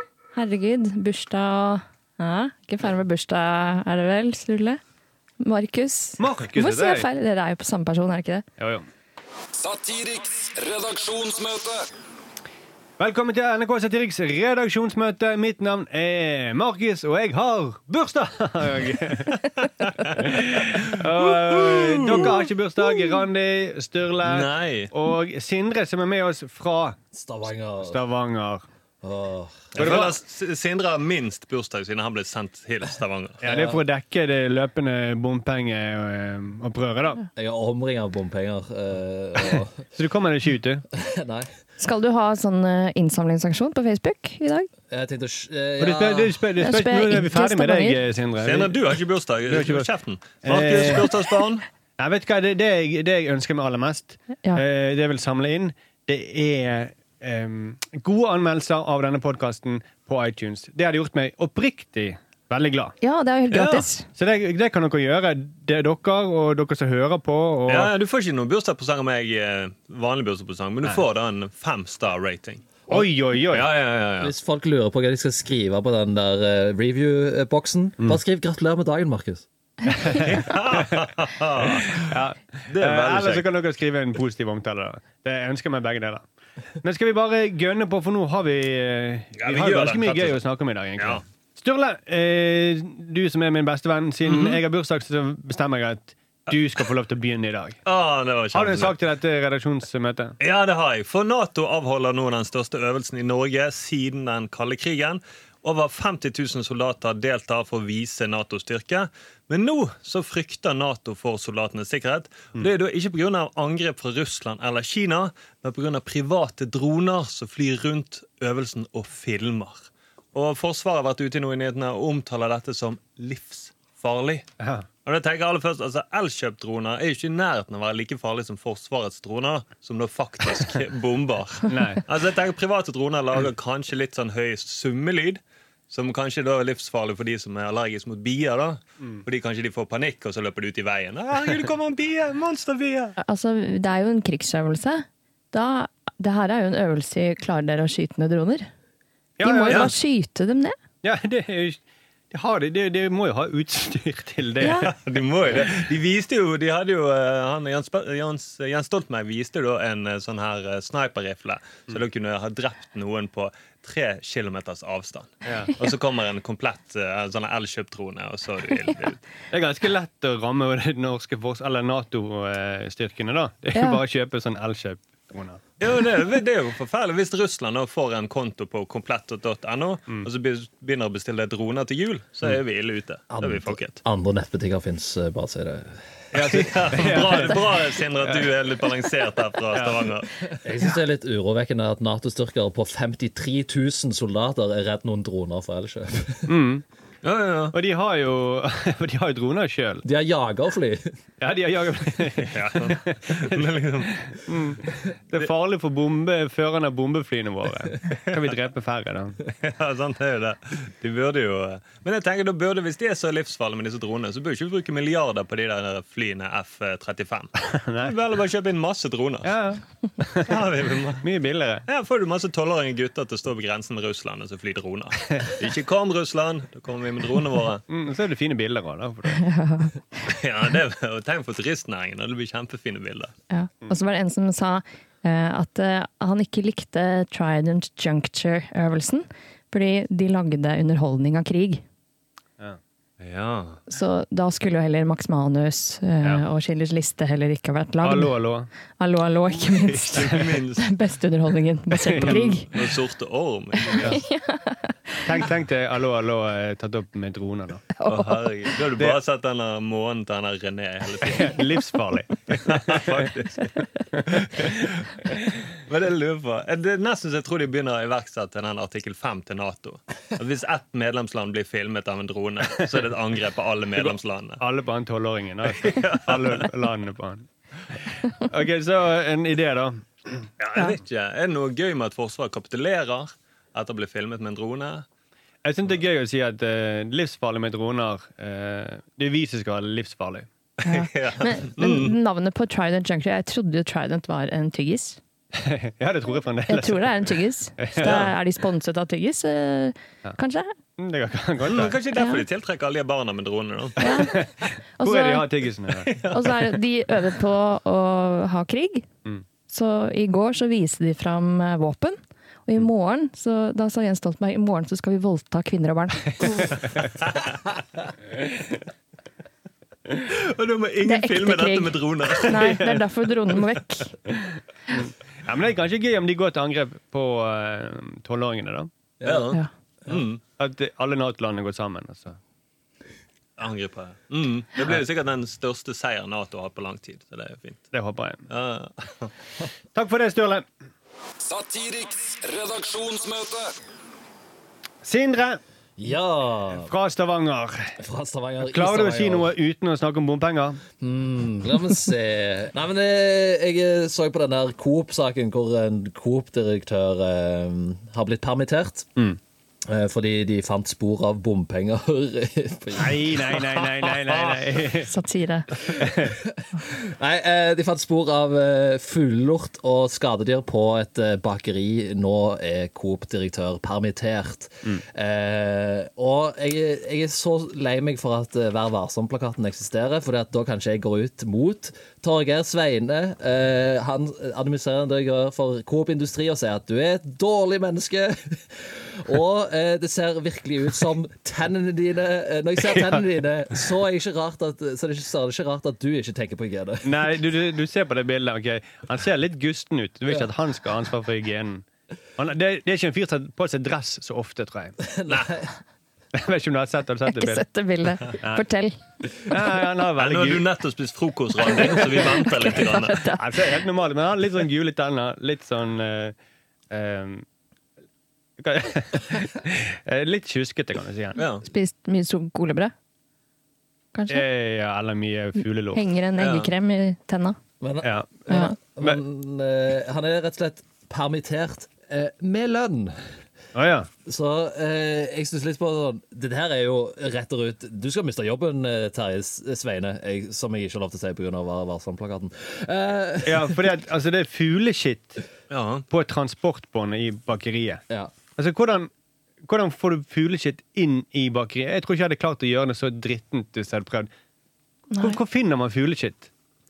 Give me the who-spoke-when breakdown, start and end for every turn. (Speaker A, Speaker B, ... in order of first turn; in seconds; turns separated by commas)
Speaker A: 0.3-4.8, Speaker A: 5.4-8.4, Speaker B: 6.2-7.1, Speaker B: 8.6-8.8, Speaker C: 9.5-11.8, Speaker B: 13.0-19.5, Speaker D: 19.8-22.5, Speaker B: 20.1-27.0, Speaker D: 24.2-24.9, Speaker E: 27.1-28.0, Speaker B: 27.8-28.6, Speaker E: 29.0-30.0, Speaker D: 29.7-33.4, Speaker B: 29.8-30.1, Speaker E: 33.4-33.8, Speaker B: 33.4-37.2, Speaker E: 37.4-39.8, Speaker B: 39.9-40.8, Speaker E: 40.9-41.5, Speaker A: 41.8-44.7, Speaker E: 44.9-46.4, Speaker B: 45.8-48.8, Speaker A: 46.6-48.0, Speaker D: 48.4-51.6, Speaker B: 49.5-49.9, Speaker B: 50.4-51.1, Speaker B: 52.0-62.9, Speaker A: 63.0-64.1, Speaker D: 63.5-63.8, Speaker B: 64.1-67.9, Speaker D: 67.7-72.8, Speaker B: 72.9-73.7, Speaker D: 73.5-74.3, Speaker E: 74.2-79.4, Speaker B: 79.9-86.2, Speaker D: 80.3-82.0, Speaker D: 82.7-83.5, Speaker B: 86.8-97.8, Speaker D: 89.3-90.4, Speaker D: 91.0-91.2, Speaker D: 94.2-94.6, Speaker D: 96.5-96.8, Speaker D: 97.8-98.9, Speaker B: 98.5-100.3, Speaker D: 100.4-124.5, Speaker B: 124.6-124.8, Speaker D: 125.0-143.2, Speaker B: 131.7-132.0, Speaker A: 143.2-148.7, Speaker B: 149.4-149.9, Speaker A: 149.4-150.8, Speaker B: 151.0-154.9, Speaker A: 154.6-154.9, Speaker D: 154.8-169.2, Speaker B: 165.4-165.7, Speaker B: 169.5-175.6, Speaker A: 173.7-174.0, Speaker D: 175.8-184.0, Speaker E: 183.3-186.0, Speaker B: 186.3-188.5, Speaker D: 186.4-190.3, Speaker B: 189.7-190.1, Speaker E: 190.6-196.5, Speaker B: 196.5-196.8, Speaker D: 197.2-197.7, Speaker B: 197.7-200.0, Speaker E: 200.0-201.1, Speaker B: 201.4-203.6, Speaker D: 202.4-204.2, Speaker B: 204.4-209.4, Speaker D: 209.6-219.5, Speaker B: 217.8-218.1, Speaker B: 219.4-220.5, Speaker D: 220.4-221.2, Speaker B: 221.2-221.8, Speaker D: 221.9-227.8, Speaker B: 227.9-229.4, Speaker A: 229.3-230.0, Speaker D: 230.2-233.3, Speaker A: 233.5-241.8, Speaker D: 243.2-243.8, Speaker A: 243.9-248.4, Speaker B: 248.0-248.7, Speaker A: 249.0-252.8, Speaker B: 249.6-250.4, Speaker D: 250.1-250.9, Speaker B: 251.9-252.3, Speaker D: 252.2-254.2, Speaker A: 253.9-255.3, Speaker B: 255.2-257.8, Speaker A: 258.0-258.5, Speaker D: 258.1-261.6, Speaker B: 261.2-263.3, Speaker D: 262.5-263.7, Speaker B: 264.1-264.9, Speaker D: 264.3-265.0, Speaker D: 265.9-274.6, Speaker B: 274.0-277.5, Speaker D: 275.7-276.6, Speaker B: 278.2-280.5, Speaker D: 280.6-285.1, Speaker B: 285.6-290.5, Speaker D: 290.8-292.1, Speaker A: 290.8-295.2, Speaker B: 295.6-297.3, Speaker A: 296.7-300.7, Speaker B: 297.8-298.3, Speaker D: 298.0-298.3, Speaker B: 301.0-301.9, Speaker D: 301.6-304.4, Speaker A: 302.1-302.4, Speaker A: 304.0-304.4, Speaker B: 304.1-306.2, Speaker A: 305.0-305.5, Speaker D: 306.1-306.3, Speaker A: 306.3-309.1, Speaker A: 309.7-316.8, Speaker B: 316.6-317.1, Speaker D: 320.1-322.7, Speaker A: 321.0-324.2, Speaker B: 322.5-322.9, Speaker B: 324.9-328.9, Speaker E: 329.2-329.5, Speaker D: 329.2-330.4, Speaker B: 330.1-332.4, Speaker D: 333.6-337.9, Speaker B: 337.9-338.4, Speaker D: 338.5-339.3, Speaker B: 339.9-340.6, Speaker C: 341.4-343.7, Speaker B: 345.0-345.6, Speaker E: 346.0-346.9, Speaker B: 346.9-347.9, Speaker E: 348.0-349.5, Speaker B: 348.7-350.8, Speaker E: 351.0-359.1, Speaker E: 359.8-363.4, Speaker B: 362.9-365.1, Speaker A: 365.1-365.7, Speaker B: 365.8-366.4, Speaker E: 366.1-397.3, Speaker B: 392.8-393.2, Speaker B: 397.0-401.8, Speaker B: 402.4-405.0, Speaker E: 405.0-405.7, Speaker D: 405.3-405.5, Speaker B: 406.3-407.6, Speaker A: 407.2-409.0, Speaker B: 408.3-408.6, Speaker B: 409.3-410.6, Speaker D: 410.2-413.2, Speaker A: 412.2-413.4, Speaker B: 413.4-416.4, Speaker B: 416.9-417.4, Speaker B: 418.6-421.4, Speaker D: 421.4-421.6, Speaker A: 421.6-422.9, Speaker A: 424.1-424.4, Speaker B: 424.3-426.0, Speaker A: 425.9-427.6, Speaker D: 426.4-426.7, Speaker E: 427.8-433.3, Speaker B: 428.0-428.3, Speaker A: 428.5-428.8, Speaker B: 433.7-434.1, Speaker E: 434.2-443.9, Speaker B: 443.4-445.4, Speaker D: 445.7-446.1, Speaker B: 446.1-448.0, Speaker B: 448.5-449.1, Speaker B: 449.6-454.3, Speaker A: 455.1-455.4, Speaker B: 455.2-456.5